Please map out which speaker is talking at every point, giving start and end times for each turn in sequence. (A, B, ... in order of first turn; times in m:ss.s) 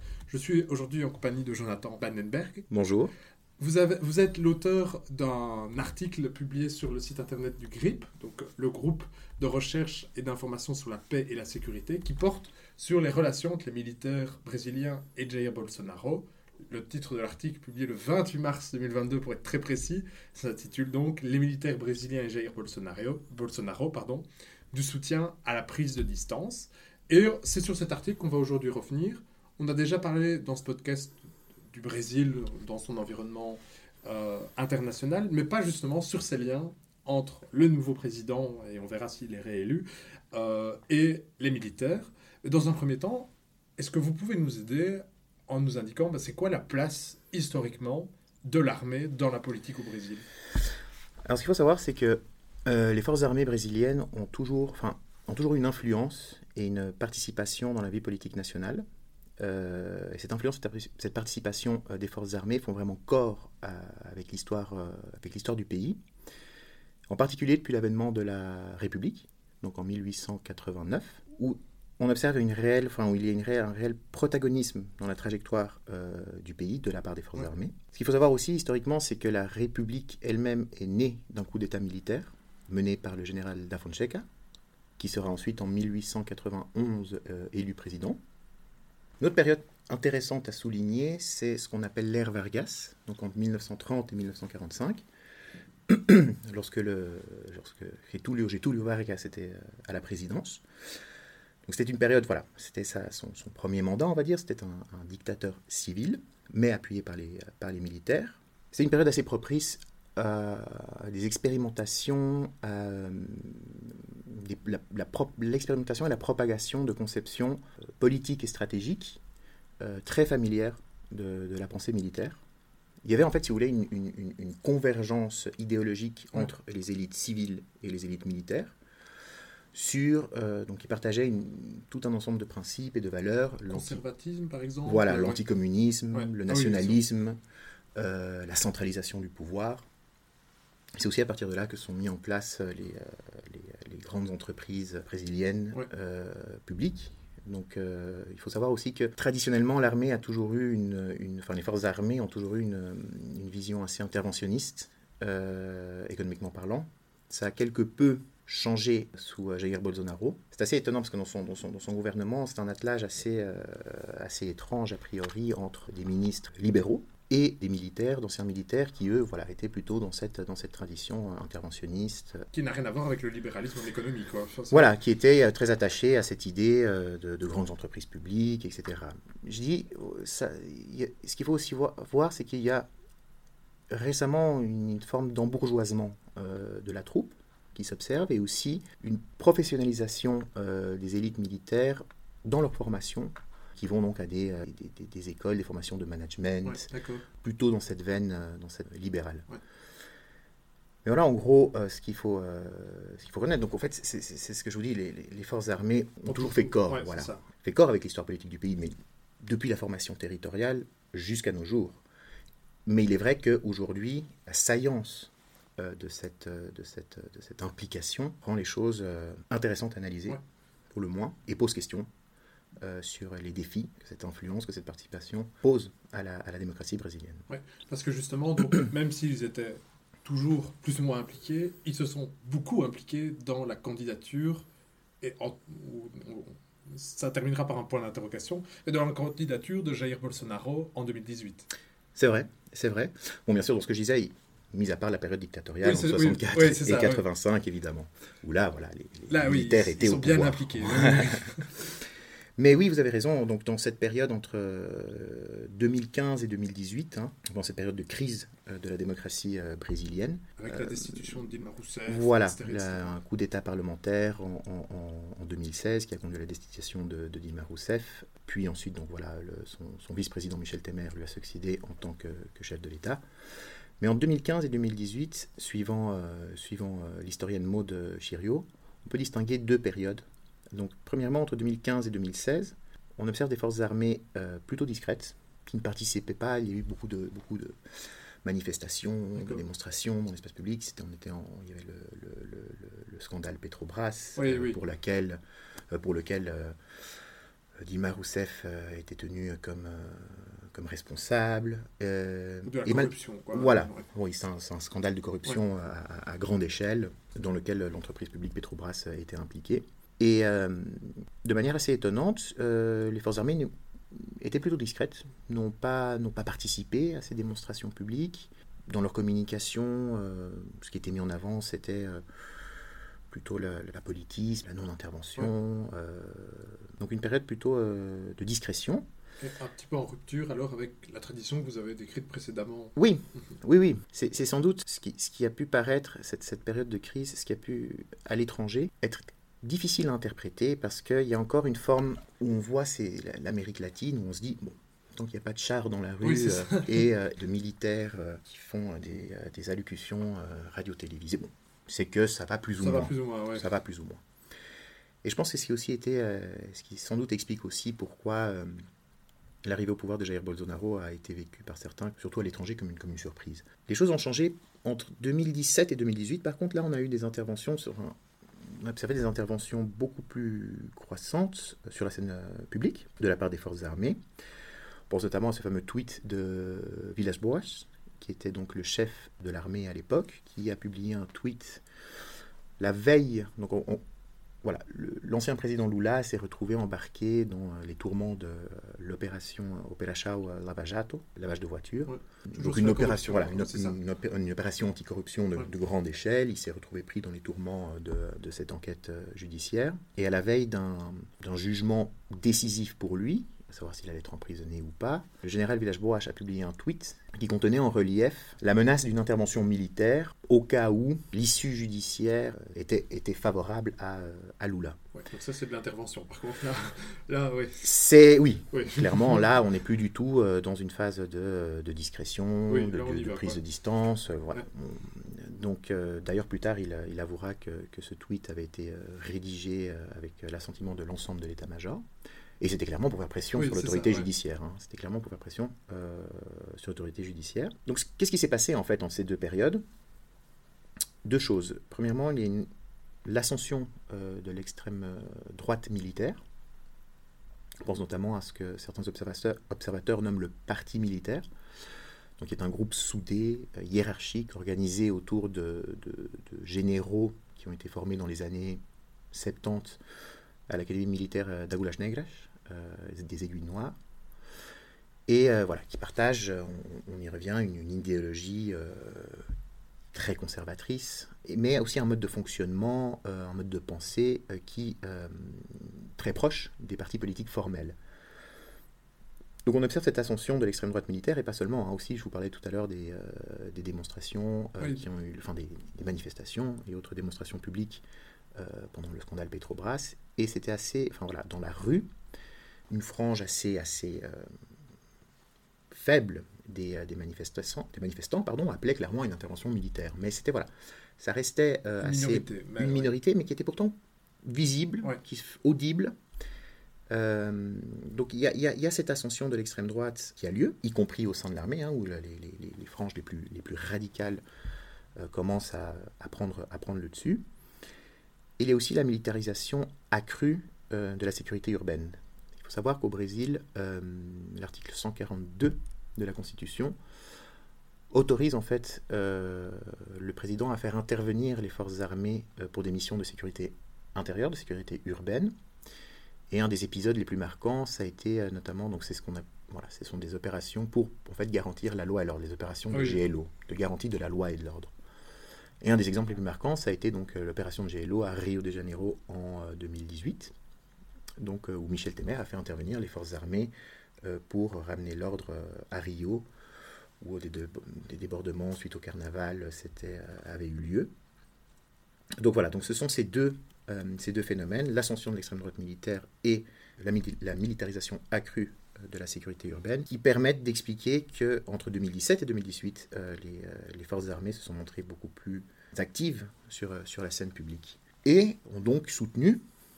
0:00.3-0:02.7 A
0:02.7-0:03.1 B
0:03.6-0:31.2 A
0:31.7-0:50.2 A
0:51.2-0:58.8 B
0:59.4-1:06.0 B
1:07.1-1:24.2 B
1:25.0-1:28.2 B
1:29.2-1:35.0 B
1:35.9-1:40.6 B
1:41.6-1:59.2 B
1:59.8-2:02.4 B
2:03.0-2:08.8 B
2:09.7-2:14.0 B
2:13.7-2:15.4 A
2:14.8-2:17.4 B
2:16.1-2:17.0 A
2:18.0-2:19.9 B
2:21.0-2:52.5 B
2:52.5-2:54.9 A
2:54.7-3:02.9 B
3:03.9-3:16.9 B
3:16.6-3:17.2 A
3:17.4-3:19.5 B
3:21.0-3:32.0 B
3:26.3-3:27.4 A
3:32.8-3:40.4 B
3:40.9-3:42.1 B
3:42.8-3:47.5 B
3:47.5-3:54.7 A
3:55.2-4:01.7 A
4:02.2-4:11.3 B
4:05.8-4:07.2 A
4:09.3-4:12.0 A
4:12.6-4:21.4 B
4:20.6-4:23.1 A
4:22.1-4:33.2 B
4:34.0-4:47.8 B
4:48.4-4:56.8 B
4:49.4-4:49.6 A
4:54.4-4:54.8 A
4:57.8-5:22.2 B
5:02.6-5:04.0 A
5:23.3-5:29.0 B
5:29.4-5:32.9 A
5:33.0-5:54.2 B
5:46.2-5:47.1 A
5:52.8-5:53.7 A
5:55.2-5:58.7 B
5:59.6-6:14.2 B
6:15.1-6:21.8 B
6:22.8-6:24.0 B
6:24.6-6:55.0 B
6:32.1-6:34.0 A
6:55.1-6:58.0 A
6:57.8-7:12.0 B
6:58.7-6:59.5 A
7:02.7-7:03.6 A
7:12.6-7:19.8 B
7:13.5-7:14.3 A
7:21.2-7:22.7 B
7:23.2-7:26.4 B
7:27.8-7:31.4 B
7:32.4-7:38.8 B
7:39.3-7:40.0 B
7:40.7-7:44.0 B
7:45.3-7:49.5 B
7:50.1-7:58.0 B
7:59.6-8:08.0 B
8:08.6-8:12.1 B
8:12.9-8:14.5 B
8:15.9-8:26.1 B
8:22.0-8:23.1 A
8:27.1-8:34.4 B
8:35.2-8:37.4 B
8:38.6-8:47.0 B
8:48.1-8:55.5 B
8:56.5-9:04.9 B
9:02.9-9:03.2 A
9:05.8-9:10.5 B
9:11.4-9:13.7 B
9:14.2-9:16.5 B
9:17.2-9:21.1 B
9:22.4-9:39.6 B